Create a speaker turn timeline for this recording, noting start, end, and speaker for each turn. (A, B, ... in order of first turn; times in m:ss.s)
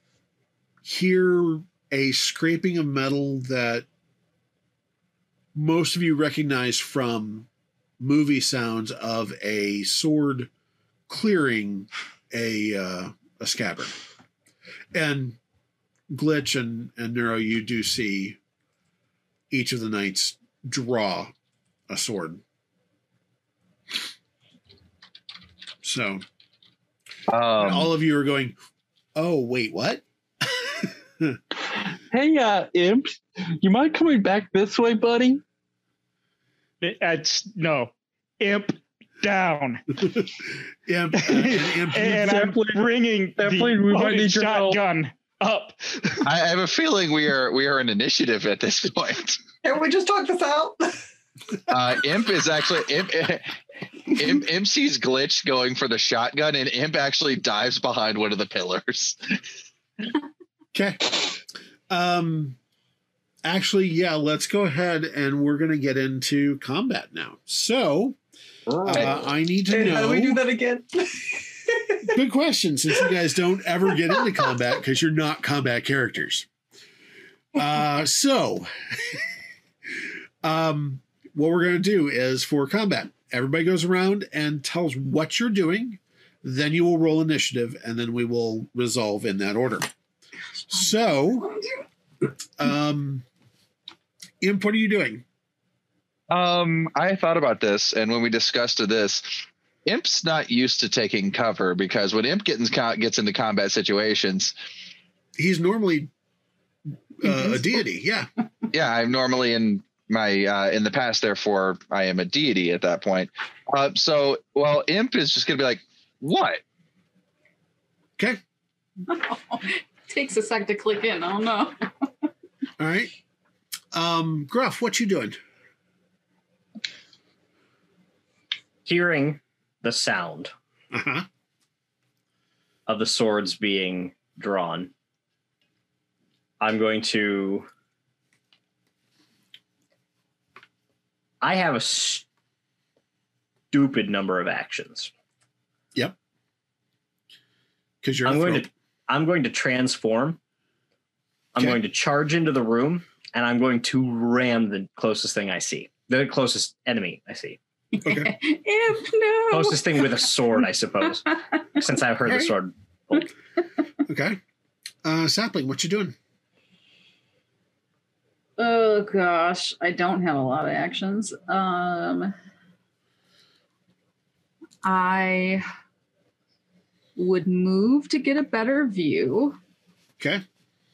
0:00.8-0:03.8 A
0:05.5-0:07.5 A
0:08.0-0:10.5 A
0:11.1-0:13.9 A
0:14.9-0:15.4 A
0:16.1-0:18.4 A
0:19.5-0:21.3 A
0:21.9-0:22.4 A
0:25.8-0:26.2 A
0:27.3-0:27.9 B
0:27.6-0:28.5 A
0:29.1-0:31.4 A
0:32.1-0:35.4 C
0:36.8-0:39.8 D
0:40.8-0:42.6 A
0:41.2-0:46.2 D
0:42.1-0:44.8 C
0:46.2-0:49.4 B
0:49.6-0:51.0 E
0:51.7-0:53.5 B
0:54.1-0:59.2 B
1:00.7-1:02.6 A
1:03.4-1:08.2 A
1:08.7-1:09.3 F
1:08.8-1:10.4 A
1:09.7-1:12.1 E
1:12.1-1:16.5 A
1:14.1-1:14.5 E
1:17.5-1:19.2 A
1:20.4-1:29.9 A
1:30.7-1:31.5 A
1:32.6-1:33.2 A
1:34.4-1:35.2 A
1:36.3-1:44.5 B
1:45.4-1:46.1 A
1:47.2-1:48.3 A
1:48.7-1:56.6 B
1:59.1-2:01.7 G
2:02.8-2:03.1 A
2:03.9-2:05.4 A
2:08.8-2:10.5 F
2:10.9-2:11.3 A
2:12.9-2:14.9 F
2:16.6-2:17.7 F
2:21.4-2:22.2 F
2:23.7-2:25.1 F
2:28.0-2:28.7 A
2:28.2-2:30.4 F
2:31.5-2:37.6 F
2:37.9-2:40.3 G
2:38.0-2:38.3 A
2:39.5-2:41.2 F
2:41.5-2:41.8 G
2:41.8-2:43.3 F
2:44.0-2:44.4 A
2:45.0-2:46.1 A
2:48.6-2:52.3 G
2:54.8-2:55.6 G
2:57.2-2:59.6 G
3:00.2-3:00.4 A